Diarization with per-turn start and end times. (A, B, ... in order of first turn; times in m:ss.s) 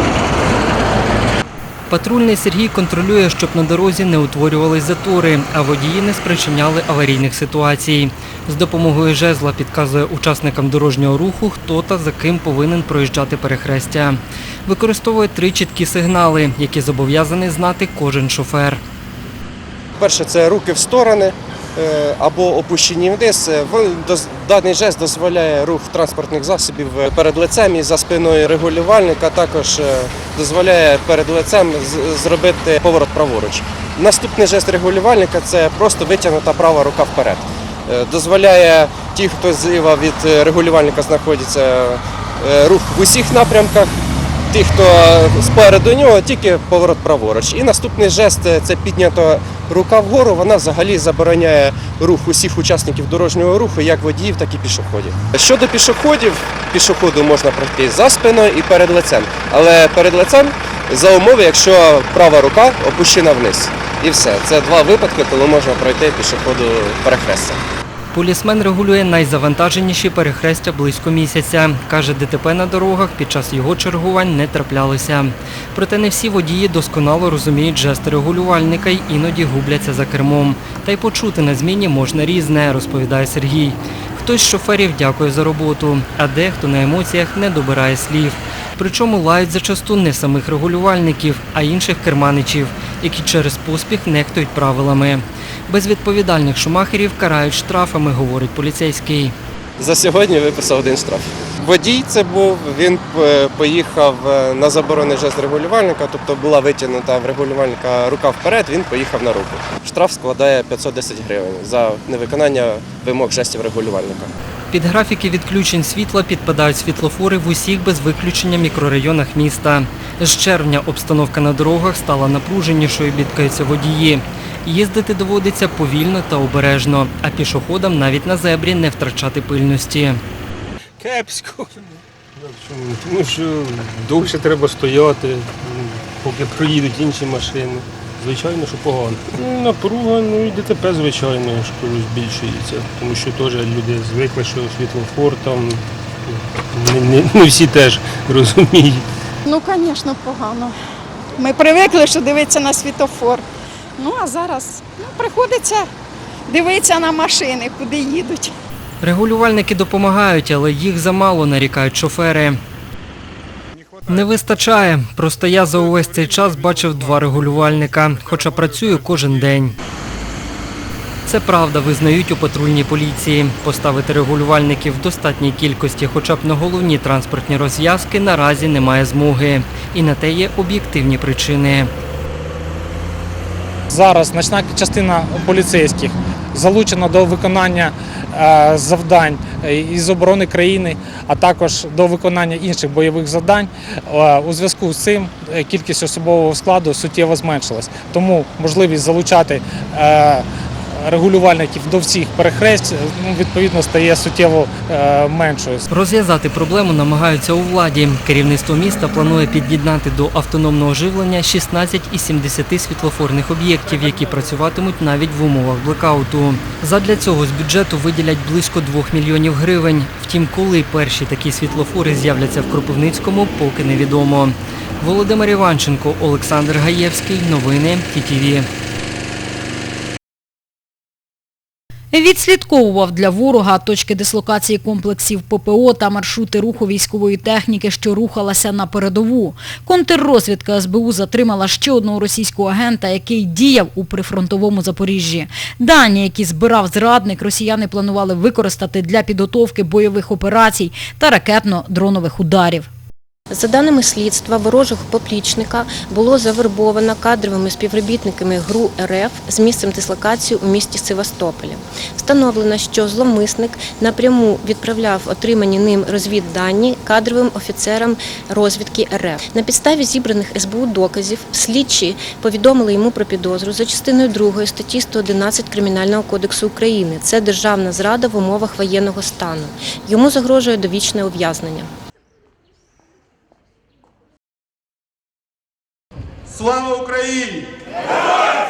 0:01.9-0:18.8 A
0:20.0-0:43.9 B
0:44.5-1:07.6 B
1:08.1-1:39.3 A
1:39.8-1:54.3 B
1:54.7-2:10.2 A
2:11.0-2:11.8 C
2:12.4-2:29.0 C
2:29.4-2:30.7 D
2:31.4-2:33.4 D
2:34.0-2:35.9 D
2:36.5-2:38.5 D
2:39.0-2:42.6 A
2:44.1-2:49.7 A
2:51.2-3:01.9 A
3:03.9-3:20.4 E
3:21.0-3:25.8 E
3:25.9-3:48.7 A
3:52.1-4:12.9 F
4:13.5-4:41.9 G